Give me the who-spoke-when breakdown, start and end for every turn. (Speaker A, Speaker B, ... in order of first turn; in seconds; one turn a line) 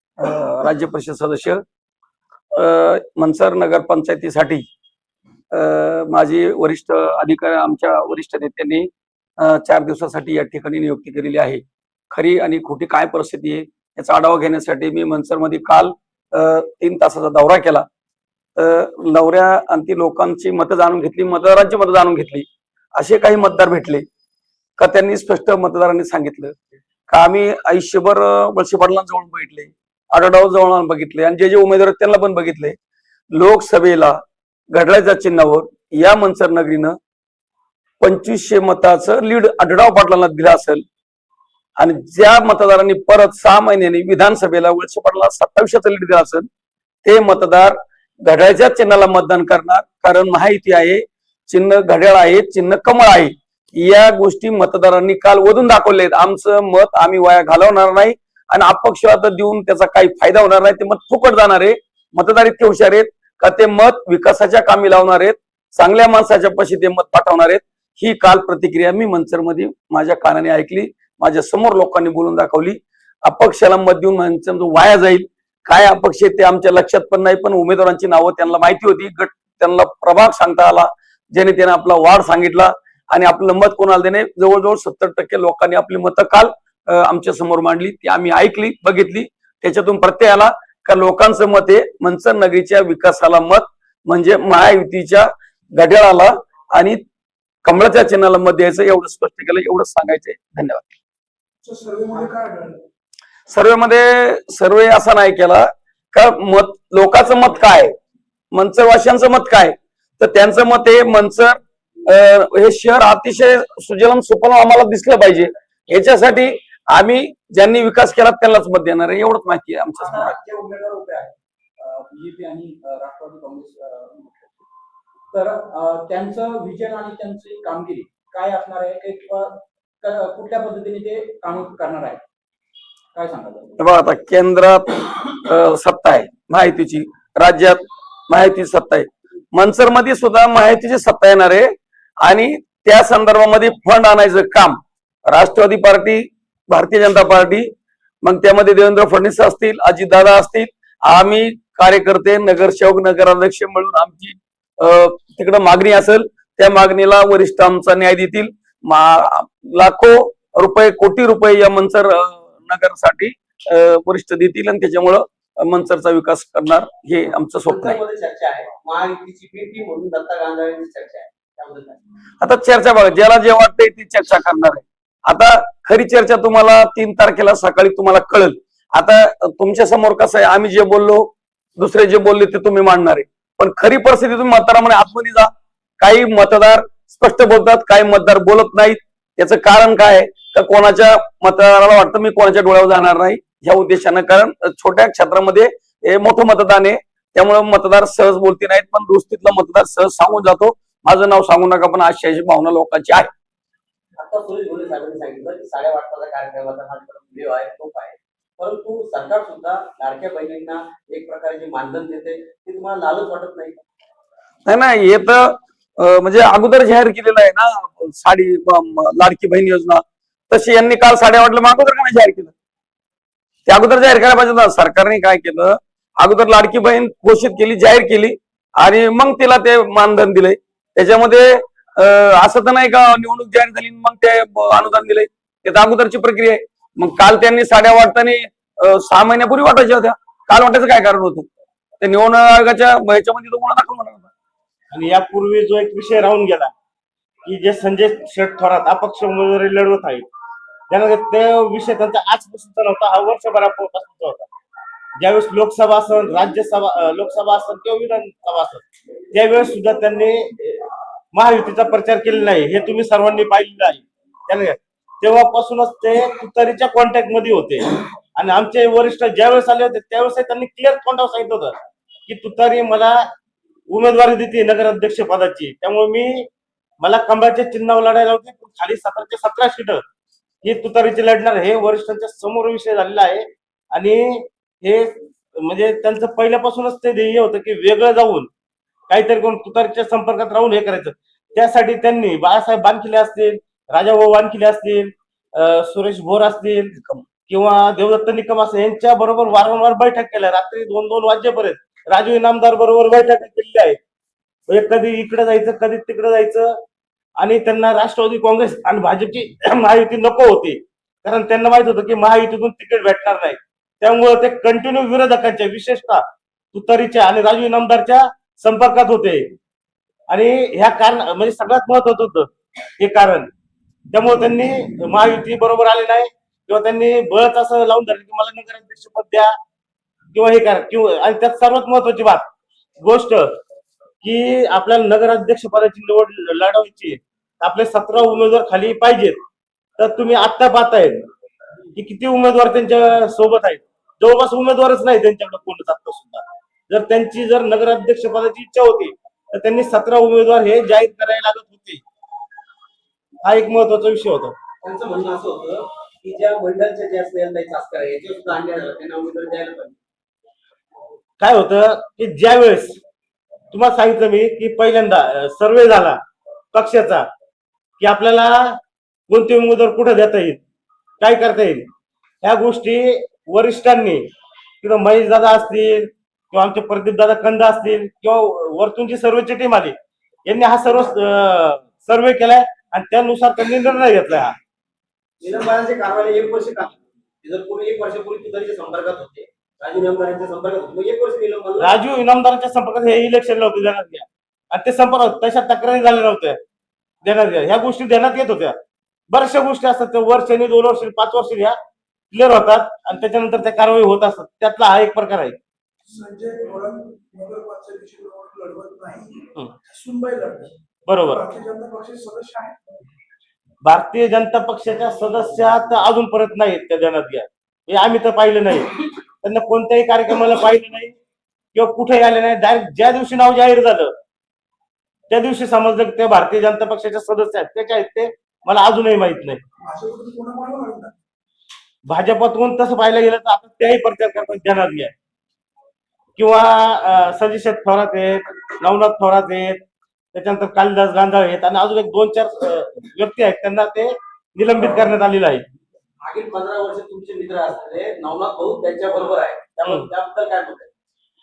Speaker A: 0.2-1.6
Speaker A: 2.5-4.7
Speaker A: 5.5-17.9
Speaker A: 18.6-24.1
Speaker A: 24.8-26.6
Speaker A: 27.1-32.8
Speaker A: 33.3-34.2
Speaker A: 34.7-37.0
Speaker A: 38.0-40.8
Speaker A: 41.8-46.5
Speaker A: 47.0-97.0
Speaker A: 97.7-100.9
Speaker B: 101.6-102.8
Speaker A: 103.5-107.9
Speaker A: 108.5-120.4
Speaker C: 120.0-124.5
Speaker C: 125.3-132.2
Speaker C: 133.1-133.7
Speaker A: 133.8-141.7
Speaker A: 142.2-147.7
Speaker A: 148.2-168.0
Speaker D: 167.7-172.0
Speaker A: 172.4-203.3
Speaker D: 204.2-213.8
Speaker A: 214.7-222.5
Speaker A: 223.7-241.5
Speaker A: 242.0-244.3
Speaker E: 244.9-246.7
Speaker E: 247.4-250.2
Speaker E: 250.9-254.5
Speaker E: 255.2-271.8
Speaker E: 272.3-273.2
Speaker E: 273.9-276.5
Speaker E: 277.0-280.0
Speaker E: 280.6-288.5
Speaker E: 289.1-304.0
Speaker E: 304.7-306.7
Speaker E: 307.4-316.2
Speaker E: 316.7-319.5
Speaker E: 320.3-323.5
Speaker E: 324.1-329.5
Speaker E: 330.3-332.5
Speaker E: 333.0-333.6
Speaker E: 334.2-339.4
Speaker E: 340.0-341.3
Speaker E: 342.0-352.0
Speaker E: 353.4-354.5
Speaker D: 354.8-360.0
Speaker E: 361.4-363.0
Speaker E: 363.7-366.2
Speaker E: 366.7-367.3
Speaker E: 368.0-368.8
Speaker E: 369.3-370.6
Speaker E: 371.2-371.9
Speaker E: 372.4-374.3
Speaker E: 374.8-379.9
Speaker E: 380.5-384.5
Speaker D: 385.4-391.9
Speaker E: 391.8-396.6
Speaker E: 397.2-398.8
Speaker E: 399.3-401.8
Speaker E: 402.3-405.6
Speaker B: 406.1-412.9
Speaker E: 411.1-411.4
Speaker E: 413.8-421.1
Speaker E: 421.8-424.1
Speaker E: 425.3-429.6
Speaker B: 429.8-431.1
Speaker E: 432.1-435.1
Speaker E: 436.4-439.8
Speaker E: 440.3-445.6
Speaker D: 446.2-450.9
Speaker E: 449.8-450.1